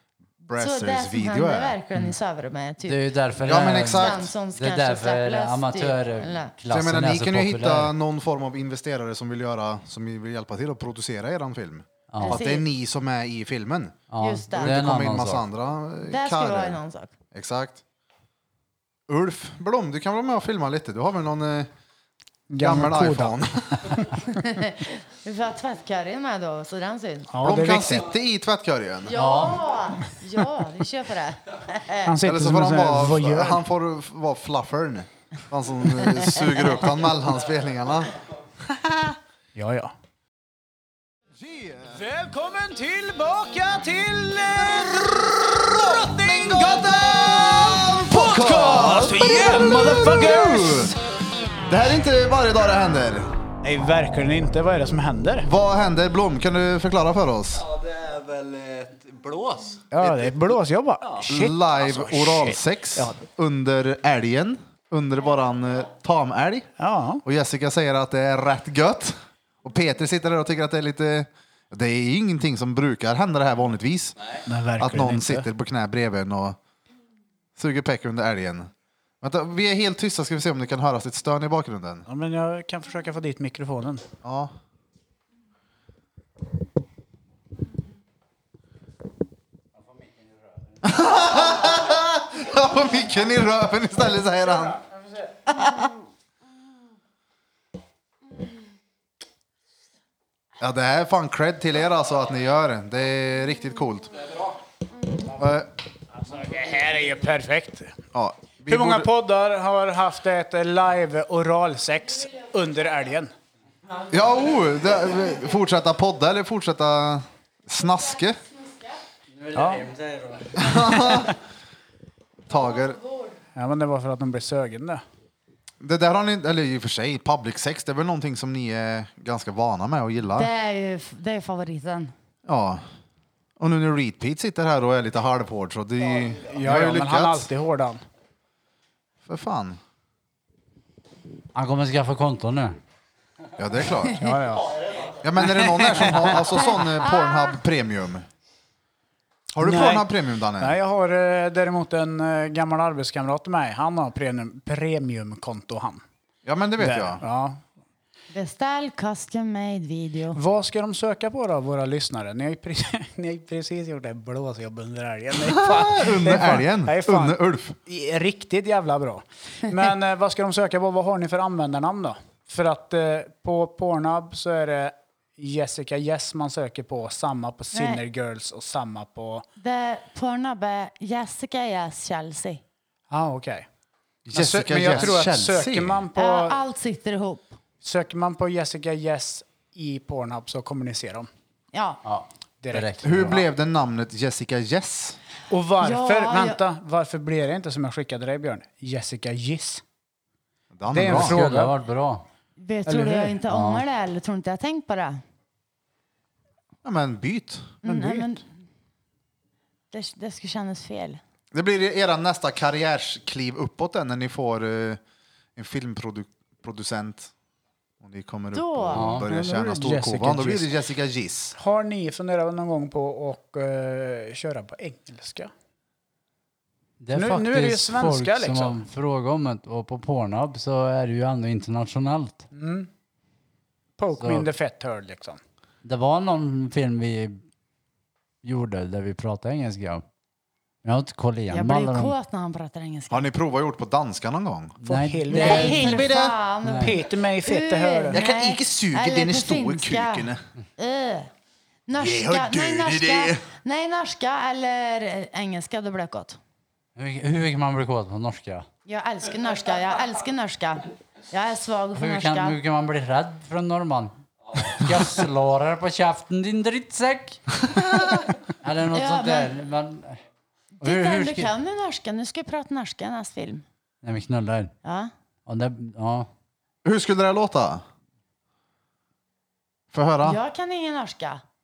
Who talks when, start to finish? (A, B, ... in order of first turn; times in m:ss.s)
0:00.4-0:01.8 A
0:00.5-0:03.0 B
0:02.8-0:07.9 C
0:03.4-0:04.3 A
0:03.8-0:06.5 B
0:06.7-0:16.8 A
0:12.1-0:12.4 C
0:12.2-0:12.6 B
0:14.1-0:15.4 C
0:14.2-0:14.7 B
0:16.1-0:17.1 B
0:17.3-0:17.8 A
0:19.1-0:21.7 A
0:22.5-0:24.1 D
0:22.6-0:24.1 A
0:24.3-0:27.3 B
0:27.3-0:28.1 D
0:27.4-0:29.2 A
0:29.0-0:32.2 B
0:29.1-0:29.7 C
0:32.0-0:33.6 D
0:32.2-0:38.1 A
0:39.5-0:39.9 D
0:41.4-0:42.0 A
0:41.9-0:50.9 D
0:45.6-0:50.9 A
0:51.7-0:53.3 A
0:53.6-0:55.5 D
0:55.4-0:57.6 A
0:57.6-0:59.8 E
0:59.9-1:03.2 D
1:00.0-1:00.3 A
1:01.2-1:06.7 A
1:06.8-1:07.2 D
1:07.2-1:14.1 A
1:14.4-1:15.5 D
1:14.8-1:16.6 A
1:17.6-1:22.0 A
1:22.1-1:24.0 D
1:24.2-1:24.5 A
1:29.8-1:30.6 C
1:30.8-1:34.8 A
1:35.4-1:35.9 A
1:40.6-1:44.2 A
1:45.3-1:45.7 A
1:46.2-1:48.0 D
1:48.1-1:49.1 A
1:48.7-1:53.3 D
1:54.1-1:58.4 A
1:59.3-2:01.0 C
1:59.5-1:59.8 D
2:00.6-2:01.3 A
2:02.5-2:03.0 A
2:03.5-2:05.0 D
2:05.8-2:10.5 A
2:10.4-2:12.1 B
2:12.4-2:12.8 A
2:13.6-2:17.5 A
2:16.4-2:18.0 D
2:19.2-2:19.8 A
2:21.5-2:22.8 C
2:23.6-2:24.3 A
2:24.2-2:24.7 D
2:25.2-2:28.3 A
2:25.5-2:26.4 D
2:26.6-2:27.5 B
2:29.5-2:30.8 A
2:29.6-2:36.0 D
2:36.4-2:37.2 A
2:36.8-2:37.6 D
2:38.3-2:40.4 B
2:40.3-2:59.4 D
2:45.4-2:47.8 A
2:57.7-2:58.0 B
2:59.6-3:02.6 B
3:03.1-3:03.7 D
3:04.2-3:06.0 A
3:04.3-3:06.6 D
3:06.2-3:07.6 B
3:07.8-3:11.3 D
3:11.7-3:12.0 B
3:12.0-3:13.4 C
3:12.6-3:13.0 D
3:13.0-3:15.2 A
3:15.5-3:19.8 D
3:15.8-3:16.6 B
3:20.7-3:21.4 A
3:20.9-3:21.7 D
3:21.0-3:22.2 C
3:22.6-3:25.2 B
3:22.8-3:23.4 D
3:23.5-3:23.8 C
3:26.8-3:27.8 A
3:27.8-3:28.4 D
3:27.8-3:28.4 B
3:29.9-3:31.2 B
3:31.5-3:35.0 A
3:35.6-3:37.3 A
3:38.0-3:41.5 A
3:38.5-3:39.1 B
3:38.9-3:39.3 C
3:39.2-3:40.7 D
3:41.6-3:45.5 D
3:47.0-3:52.4 C
3:47.1-3:48.8 D
3:52.5-3:52.9 D
3:54.0-3:55.4 D
3:54.2-3:54.5 C
3:55.8-3:57.4 C
3:58.4-4:00.0 C
4:00.8-4:02.1 C
4:01.5-4:03.2 B
4:03.1-4:04.8 A
4:04.8-4:06.0 C
4:04.8-4:06.1 D
4:05.3-4:11.3 B
4:05.7-4:06.4 A
4:06.6-4:07.0 C
4:06.7-4:08.2 D
4:08.1-4:10.4 A
4:11.9-4:16.4 B
4:12.0-4:13.4 A
4:17.0-4:18.7 C
4:18.8-4:22.6 B
4:21.9-4:27.5 C
4:28.6-4:30.2 C
4:28.9-4:29.5 B
4:30.8-4:31.5 C
4:30.8-4:33.6 B
4:34.0-4:34.7 C
4:34.8-4:35.1 B
4:35.4-4:36.3 C
4:36.8-4:37.8 A
4:39.9-4:40.4 A
4:40.2-4:41.4 B